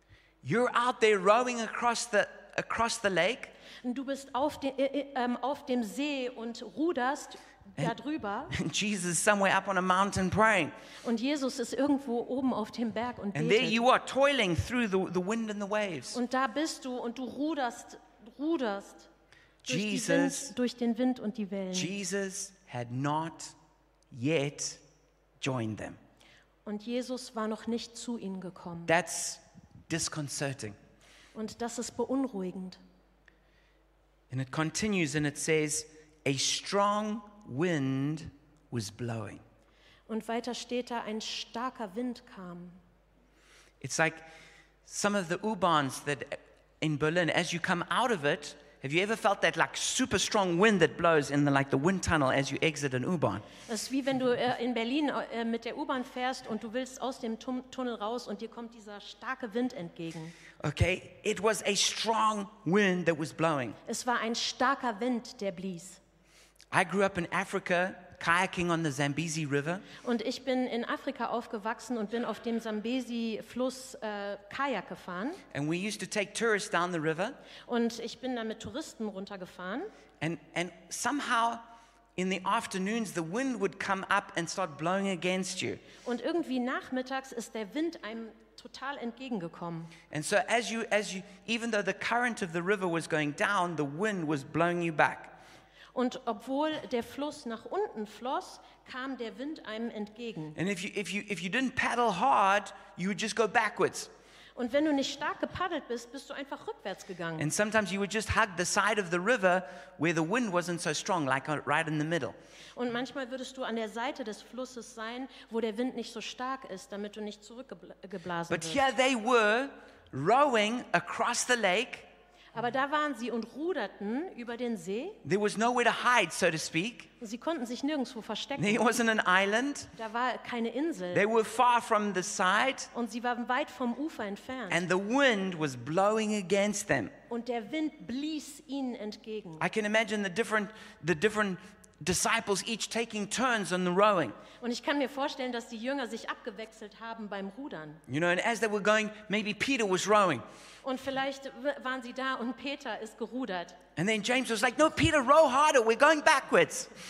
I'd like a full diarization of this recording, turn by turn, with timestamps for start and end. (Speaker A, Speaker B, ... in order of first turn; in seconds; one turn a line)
Speaker A: 0.4-3.5
Speaker B: 3.8-8.6
Speaker A: 8.5-10.8
Speaker B: 11.0-13.8
Speaker A: 13.3-16.2
Speaker B: 16.1-19.1
Speaker A: 19.6-20.5
Speaker B: 19.7-21.9
Speaker A: 21.7-23.6
Speaker A: 24.1-24.8
Speaker A: 25.4-26.0
Speaker B: 26.6-28.9
Speaker A: 28.9-30.8
Speaker B: 31.4-32.8
Speaker A: 34.3-39.4
Speaker B: 40.1-42.8
Speaker A: 43.8-44.3
Speaker A: 44.9-53.5
Speaker B: 53.7-60.4
Speaker A: 60.6-63.8
Speaker B: 63.9-66.0
Speaker A: 66.7-69.9
Speaker B: 70.0-75.4
Speaker A: 75.5-77.4
Speaker B: 77.7-79.9
Speaker A: 80.2-85.8
Speaker B: 86.0-89.9
Speaker A: 90.1-95.4
Speaker B: 95.9-100.6
Speaker A: 100.6-104.1
Speaker B: 104.6-107.5
Speaker A: 107.4-112.3
Speaker B: 112.8-118.8
Speaker A: 118.5-122.1
Speaker B: 122.5-125.2
Speaker A: 125.2-127.1
Speaker B: 127.2-128.9
Speaker A: 128.6-129.9
Speaker B: 130.0-131.2
Speaker A: 131.1-132.9
Speaker B: 132.9-134.8
Speaker A: 134.7-137.2
Speaker B: 137.3-139.7
Speaker A: 139.6-144.4
Speaker B: 144.6-148.0
Speaker A: 148.1-150.4
Speaker B: 150.8-153.8
Speaker A: 154.0-156.9